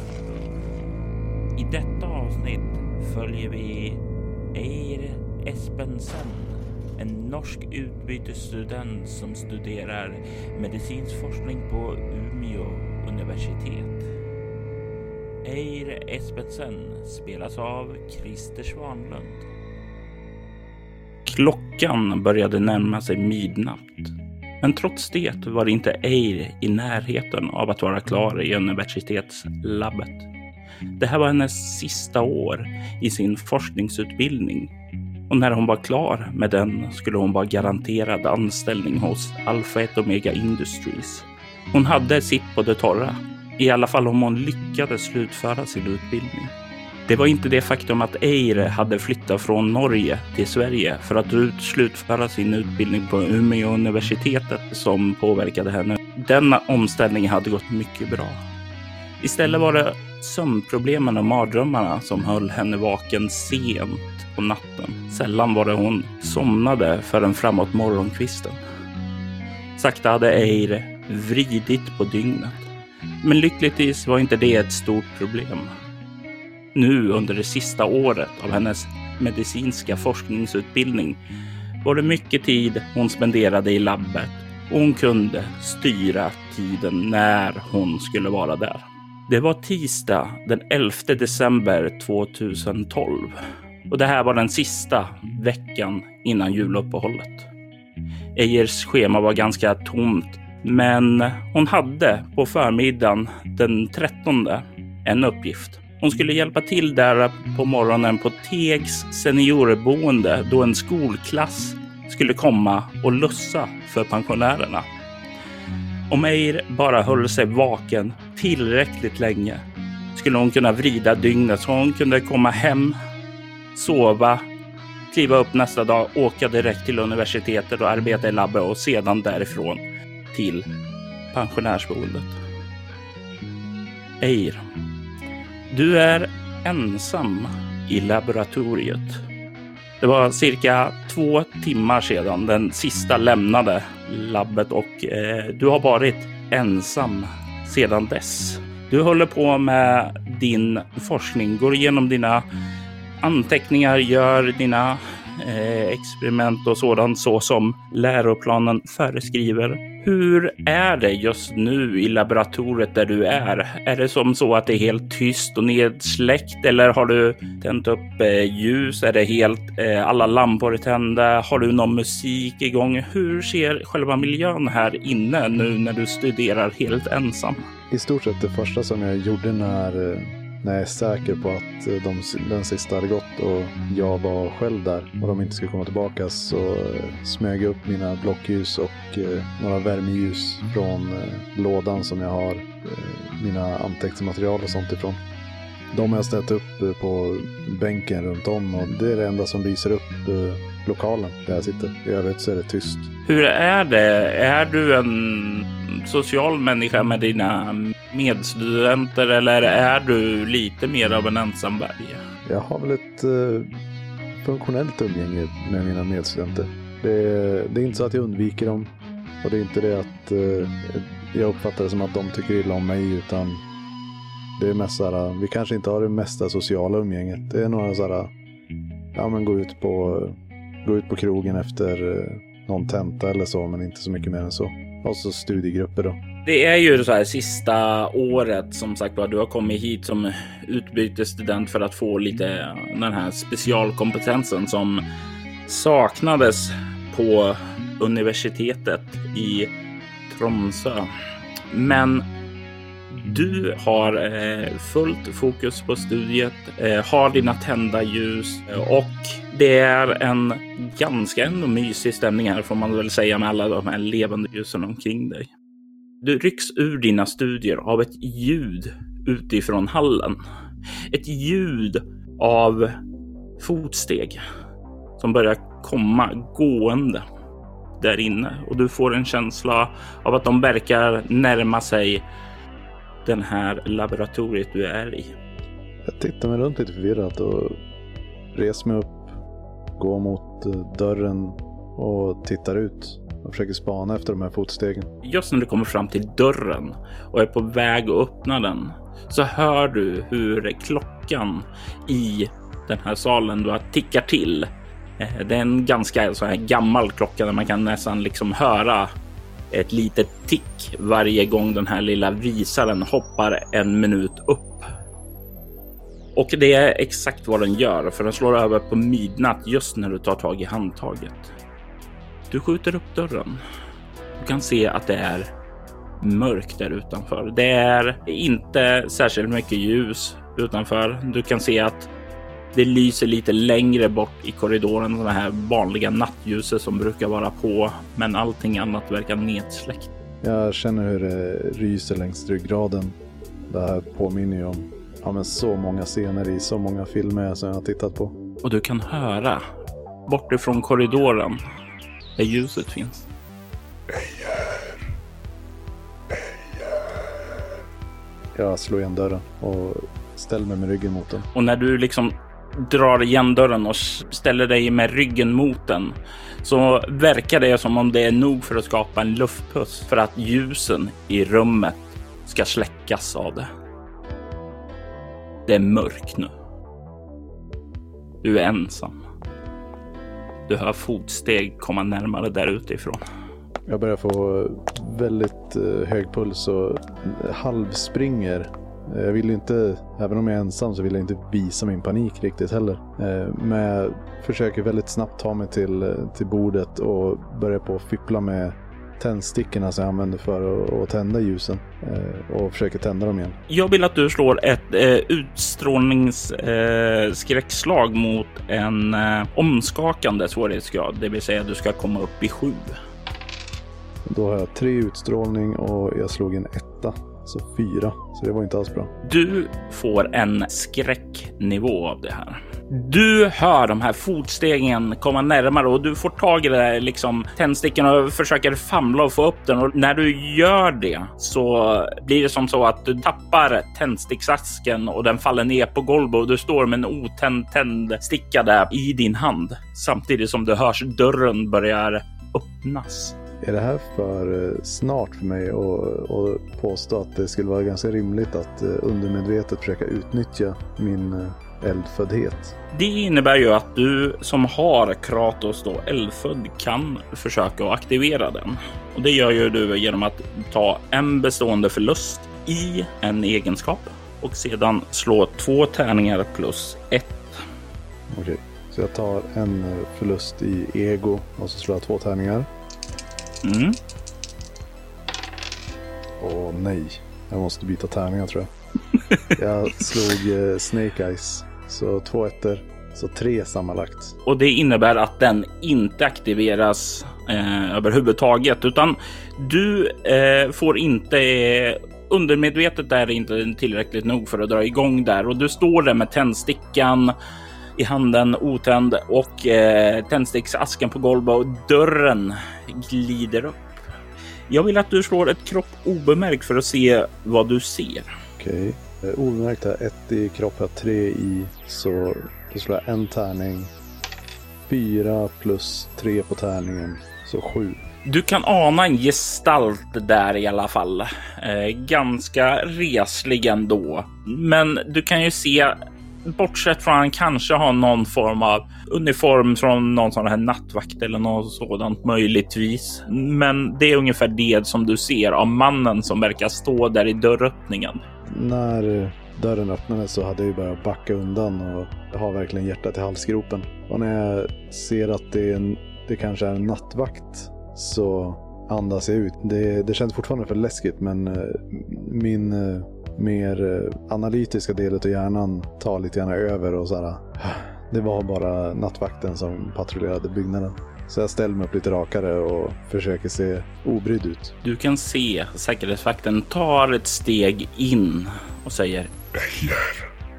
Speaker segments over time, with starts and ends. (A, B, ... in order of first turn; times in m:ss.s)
0:01.6-0:04.0 A
0:04.5-0:14.0 A
0:15.4-0:19.4 A
0:21.2-0:30.3 A
0:31.0-0:34.7 A
0:35.3-0:46.5 A
0:47.1-0:58.4 A
0:59.2-1:08.6 A
1:09.8-1:12.7 A
1:13.2-1:15.7 A
1:16.7-1:21.2 A
1:21.8-1:33.4 A
1:33.9-1:37.5 A
1:38.4-1:54.9 A
1:56.1-1:59.6 A
2:00.1-2:03.0 A
2:03.7-2:04.4 A
2:05.1-2:10.7 A
2:11.3-2:12.4 A
2:14.2-2:14.6 A
2:15.7-2:19.2 A
2:20.0-2:32.4 A
2:33.2-2:57.7 A
2:57.9-3:15.2 B
3:15.9-3:23.1 B
3:23.2-3:32.2 A
3:32.4-3:33.7 B
3:34.4-3:38.9 B
3:39.4-3:43.6 B
3:44.6-3:48.3 B
3:49.1-3:56.2 B
3:56.4-4:05.0 A
4:05.6-4:09.7 A
4:10.3-4:11.1 A
4:11.7-4:12.3 A
4:13.1-4:25.5 A
4:26.2-4:30.4 A
4:31.1-4:33.0 A
4:33.6-4:34.4 A
4:35.2-4:37.2 A
4:38.0-4:42.2 A
4:43.2-4:45.3 A
4:46.0-4:47.8 B
4:48.5-4:49.3 B
4:50.0-4:55.1 B
4:55.2-5:09.1 A
5:09.7-5:14.9 A
5:16.3-5:21.5 A
5:22.5-5:23.6 A
5:24.4-5:25.5 A
5:26.2-5:32.1 A
5:32.7-5:40.1 A
5:40.4-5:43.2 B
5:43.7-5:48.4 B
5:48.6-5:49.6 A
5:50.3-5:51.6 A
5:52.4-5:53.3 A
5:54.1-5:55.1 C
5:56.3-5:57.6 C
5:58.5-6:01.5 B
6:01.5-6:13.7 A
6:15.6-6:16.5 A
6:18.4-6:19.2 A
6:20.7-6:23.2 A
6:23.9-6:43.6 B
6:43.7-6:53.0 A
6:54.2-6:59.1 B
6:59.2-7:23.3 A
7:23.6-7:32.7 B
7:32.9-7:47.6 A
7:48.3-7:52.7 B
7:53.6-7:54.0 A
7:56.4-7:58.7 B
7:59.5-8:04.4 B
8:04.4-8:17.3 A
8:18.0-8:24.0 A
8:24.7-8:28.3 A
8:28.6-8:33.9 B
8:34.9-8:38.0 B
8:38.2-8:58.2 A
8:58.4-9:24.7 B
9:24.8-9:29.3 A
9:29.5-9:30.3 C